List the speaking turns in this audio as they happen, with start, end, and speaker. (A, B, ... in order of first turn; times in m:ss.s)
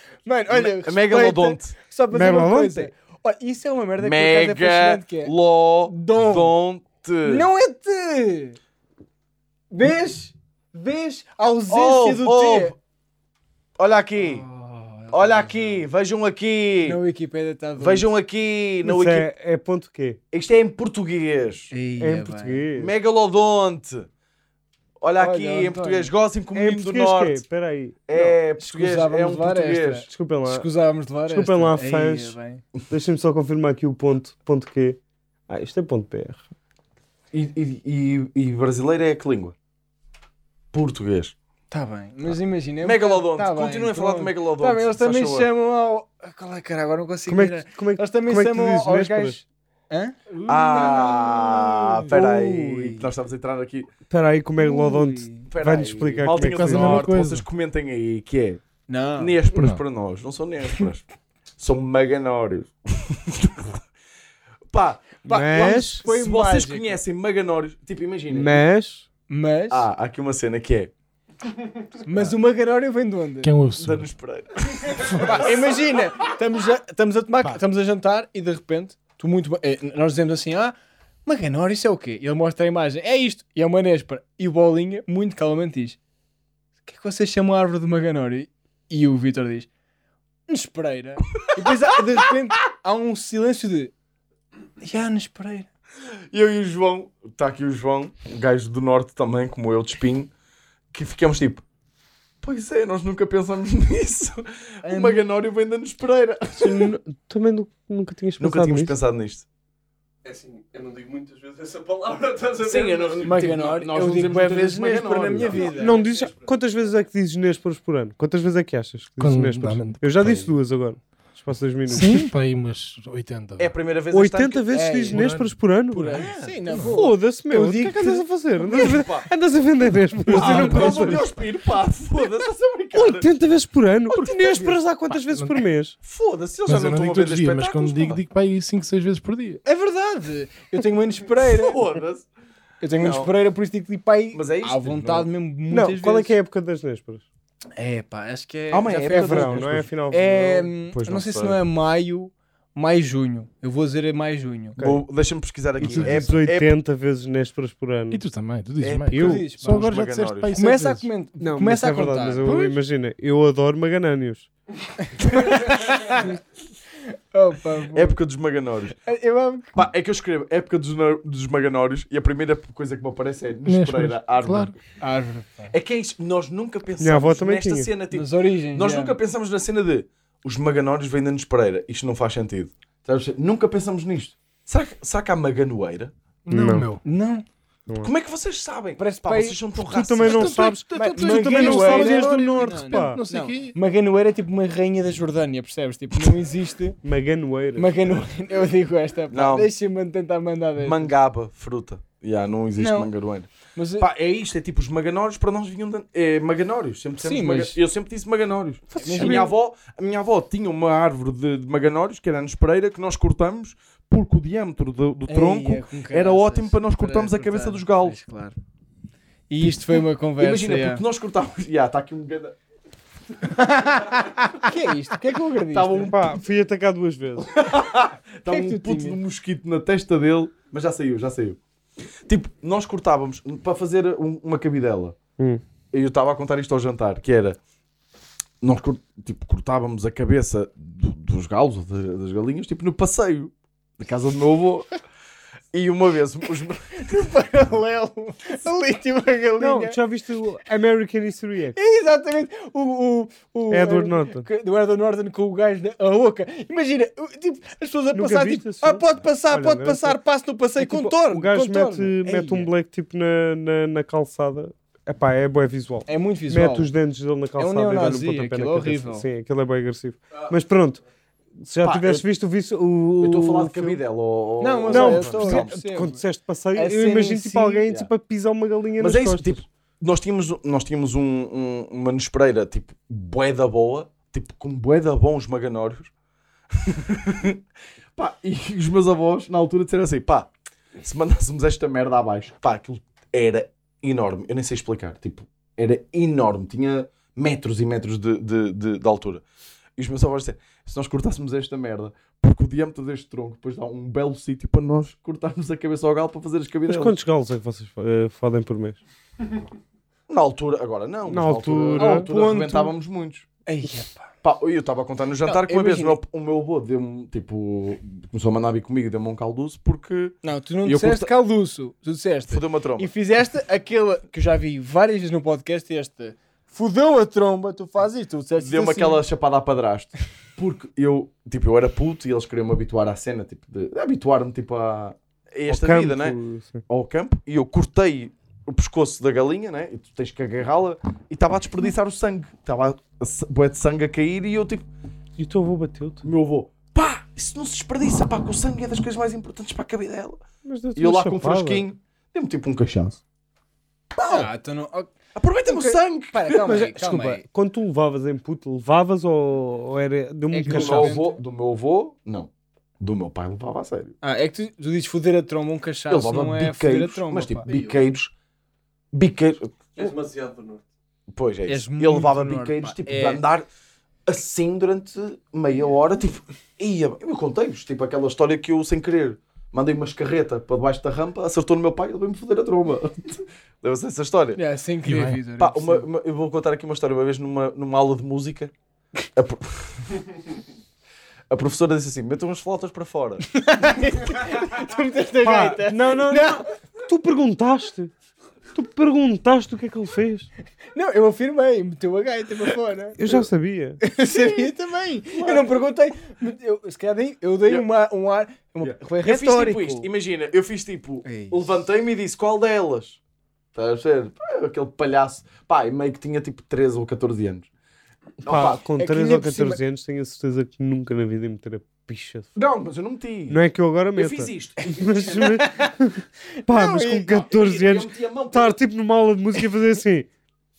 0:00.2-0:05.3 A
0:00.5-0:01.8 B
0:02.1-0:02.9 C
0:04.0-0:07.5 B
0:05.9-0:06.5 A
0:07.2-0:08.6 A
0:09.7-0:12.7 A
0:11.7-0:12.8 B
0:13.8-0:14.4 B
0:14.2-0:15.9 A
0:15.1-0:17.0 B
0:16.8-0:18.1 A
0:17.8-0:19.3 B
0:18.8-0:20.2 C
0:20.3-0:21.7 B
0:21.7-0:22.6 A
0:22.0-0:22.9 C
0:22.8-0:24.1 B
0:25.0-0:27.4 B
0:25.2-0:26.1 A
0:26.5-0:28.4 C
0:28.1-0:30.1 B
0:28.6-0:32.6 A
0:30.1-0:30.7 C
0:31.3-0:32.4 C
0:32.9-0:36.4 C
0:37.3-0:39.6 B
0:40.7-0:41.3 B
0:41.7-0:52.0 A
0:42.8-0:45.5 B
0:47.3-0:49.4 C
0:50.4-0:53.9 B
0:52.1-0:53.0 C
0:54.1-0:57.1 C
0:54.6-0:55.5 A
0:55.5-0:58.6 B
0:56.3-0:57.4 D
0:58.9-0:59.4 A
0:59.2-1:01.0 B
0:59.5-0:59.8 D
1:01.6-1:03.8 B
1:04.7-1:08.6 B
1:05.2-1:07.0 A
1:05.3-1:06.0 C
1:08.3-1:09.1 C
1:09.3-1:09.8 A
1:09.7-1:10.9 B
1:12.0-1:13.5 A
1:13.4-1:14.1 D
1:13.8-1:16.1 B
1:15.0-1:15.3 D
1:15.1-1:26.0 A
1:26.9-1:29.7 A
1:30.5-1:33.9 A
1:34.8-1:35.7 A
1:36.3-1:40.3 B
1:40.9-1:41.6 B
1:42.4-1:46.9 B
1:44.8-1:45.2 A
1:46.6-1:49.0 C
1:48.4-1:49.4 B
1:50.2-1:53.3 E
1:52.6-1:55.8 B
1:53.2-1:56.0 A
1:55.7-2:02.3 C
1:55.9-1:56.4 E
1:59.2-2:00.5 D
2:01.9-2:03.7 D
2:03.6-2:04.7 B
2:04.1-2:06.3 C
2:04.7-2:05.2 A
2:05.1-2:06.9 D
2:05.9-2:08.8 A
2:06.1-2:06.5 B
2:06.8-2:11.3 C
2:08.6-2:09.3 B
2:10.3-2:11.2 D
2:10.3-2:13.3 B
2:12.9-2:16.0 C
2:14.1-2:14.8 B
2:15.3-2:15.6 D
2:16.0-2:18.2 B
2:16.7-2:19.6 D
2:19.6-2:21.8 A
2:21.4-2:22.3 B
2:22.8-2:26.3 A
2:23.0-2:23.3 B
2:24.3-2:25.3 B
2:25.7-2:27.2 C
2:27.8-2:34.8 A
2:28.7-2:29.9 B
2:29.1-2:30.7 C
2:30.9-2:31.6 B
2:34.8-2:35.0 C
2:34.8-2:36.7 B
2:35.8-2:38.2 C
2:35.8-2:36.2 D
2:38.1-2:41.1 D
2:38.8-2:40.6 B
2:39.1-2:39.5 C
2:39.2-2:39.9 A
2:40.5-2:42.6 A
2:41.4-2:44.5 C
2:42.4-2:42.8 D
2:45.0-2:46.4 A
2:47.0-2:48.1 A
2:47.9-2:49.0 B
2:49.0-2:49.9 A
2:49.7-2:54.8 B
2:53.7-2:54.7 D
2:55.0-2:55.7 A
2:55.7-3:06.1 B
2:57.0-2:57.9 C
2:58.1-2:59.2 A
3:06.4-3:07.0 D
3:06.5-3:06.9 C
3:07.0-3:07.4 A
3:08.0-3:10.6 B
3:09.0-3:09.6 A
3:09.9-3:13.2 C
3:10.2-3:13.8 D
3:10.9-3:17.0 A
3:17.0-3:17.9 C
3:17.8-3:21.1 A
3:19.3-3:19.7 B
3:20.8-3:38.2 B
3:22.8-3:23.1 A
3:23.7-3:24.1 A
3:27.2-3:27.8 A
3:28.9-3:29.5 A
3:29.0-3:29.5 C
3:35.3-3:38.6 A
3:39.5-3:41.0 A
3:40.4-3:42.6 B
3:43.5-3:46.1 A
3:45.7-3:46.3 B
3:46.0-3:47.5 C
3:47.5-3:51.6 B
3:48.5-3:49.2 A
3:52.3-3:55.2 B
3:55.9-3:57.6 B
3:58.6-4:04.9 B
4:05.7-4:07.3 B
4:07.0-4:10.0 A
4:09.6-4:11.8 C
4:11.8-4:22.7 A
4:13.7-4:14.4 C
4:18.1-4:20.2 C
4:20.8-4:31.0 C
4:26.1-4:26.9 A
4:27.6-4:29.2 A
4:31.6-4:34.0 C
4:31.8-4:32.2 B
4:33.2-4:35.7 B
4:34.6-4:36.2 A
4:34.9-4:39.6 C
4:36.7-4:37.9 A
4:39.0-4:46.1 B
4:46.7-4:47.6 B
4:48.2-4:50.5 B
4:51.0-4:59.4 B
5:00.0-5:07.1 B
5:06.9-5:09.0 C
5:10.3-5:13.4 B
5:11.3-5:12.3 C
5:12.0-5:12.9 A
5:13.6-5:14.3 A
5:14.4-5:21.3 B
5:15.4-5:16.2 A
5:20.4-5:29.2 A
5:22.5-5:23.1 B
5:28.6-5:44.8 B
5:35.7-5:36.8 C
5:45.4-5:46.3 C
5:46.2-5:50.4 B
5:50.6-5:51.9 C
5:50.9-5:53.2 B
5:54.1-5:54.5 B
5:54.2-5:55.1 A
5:55.4-5:56.9 B
5:55.7-5:57.4 A
5:56.6-6:01.2 C
6:00.5-6:01.4 A
6:00.6-6:04.1 B
6:04.2-6:07.7 A
6:06.1-6:08.3 B
6:09.1-6:10.1 B
6:10.0-6:10.8 E
6:11.3-6:13.6 B
6:11.7-6:13.4 A
6:14.3-6:24.6 B
6:24.6-6:26.1 A
6:25.0-6:25.4 D
6:25.6-6:28.7 B
6:29.4-6:30.2 B
6:31.5-6:33.4 B
6:33.5-6:36.6 A
6:35.4-6:38.1 C
6:38.7-6:40.5 C
6:40.9-6:43.4 A
6:43.2-6:44.0 C
6:44.0-6:50.1 A
6:45.4-6:45.7 B
6:48.8-6:53.2 B
6:51.2-6:51.7 A
6:53.7-6:57.7 B
6:58.4-6:58.8 B
6:58.4-7:02.5 C
6:59.0-6:59.8 A
7:02.6-7:03.6 B
7:03.5-7:10.3 C
7:04.1-7:05.5 B
7:05.1-7:05.9 A
7:06.6-7:07.4 A
7:07.3-7:08.8 B